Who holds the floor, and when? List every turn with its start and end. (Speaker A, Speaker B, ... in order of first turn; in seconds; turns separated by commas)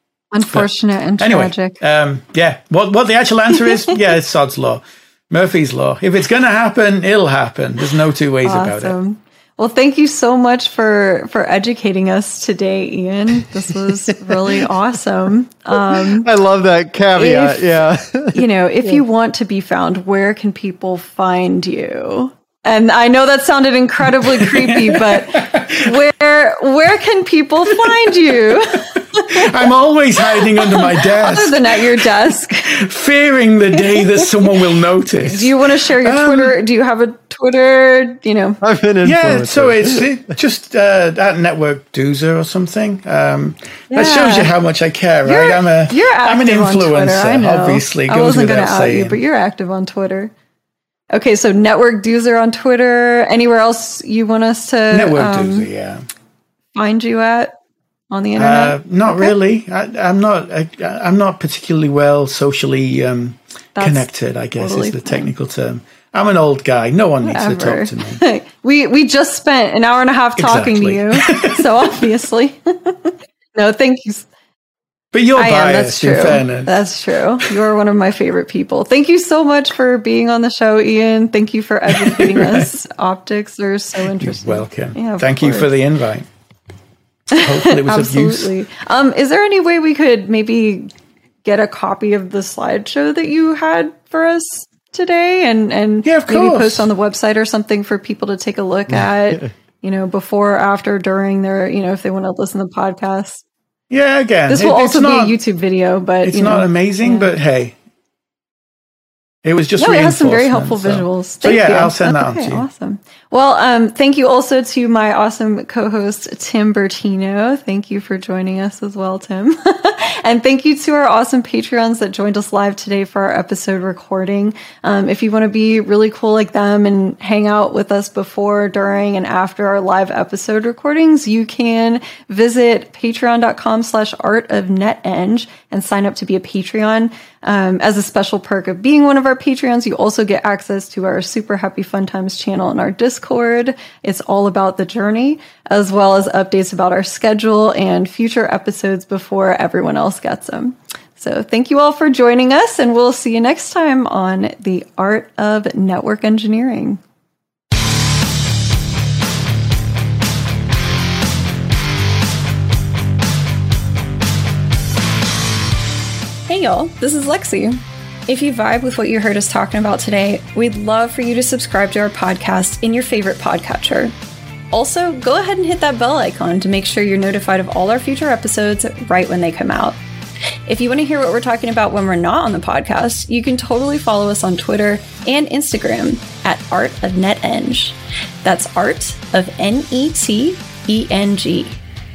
Speaker A: 0.3-1.8, Speaker B: 0.5-8.9, Speaker A: 8.4-16.3, Speaker C: 15.7-19.0, Speaker A: 17.1-29.5, Speaker B: 24.4-25.9, Speaker B: 27.8-28.1, Speaker B: 29.3-32.1, Speaker A: 30.3-32.7, Speaker B: 32.6-36.6, Speaker A: 33.8-34.2, Speaker A: 35.2-38.6, Speaker C: 38.6-40.1, Speaker B: 39.0-49.2, Speaker A: 43.9-44.5, Speaker A: 45.3-50.3, Speaker A: 51.1-55.7, Speaker B: 54.9-56.0, Speaker A: 56.7-57.6, Speaker A: 58.1-59.4, Speaker B: 58.4-68.2, Speaker A: 63.8-65.3, Speaker A: 67.2-74.3, Speaker B: 70.4-71.9, Speaker B: 75.1-76.8, Speaker A: 75.4-85.7, Speaker B: 81.9-82.7, Speaker B: 84.2-86.3, Speaker B: 87.3-88.6, Speaker A: 87.3-90.9, Speaker A: 91.4-103.4, Speaker B: 96.0-96.9, Speaker B: 103.9-105.4, Speaker A: 104.5-107.3, Speaker B: 106.2-107.8, Speaker B: 109.4-112.7, Speaker A: 109.8-157.0, Speaker A: 166.5-174.1, Speaker A: 174.7-180.0, Speaker A: 180.7-191.8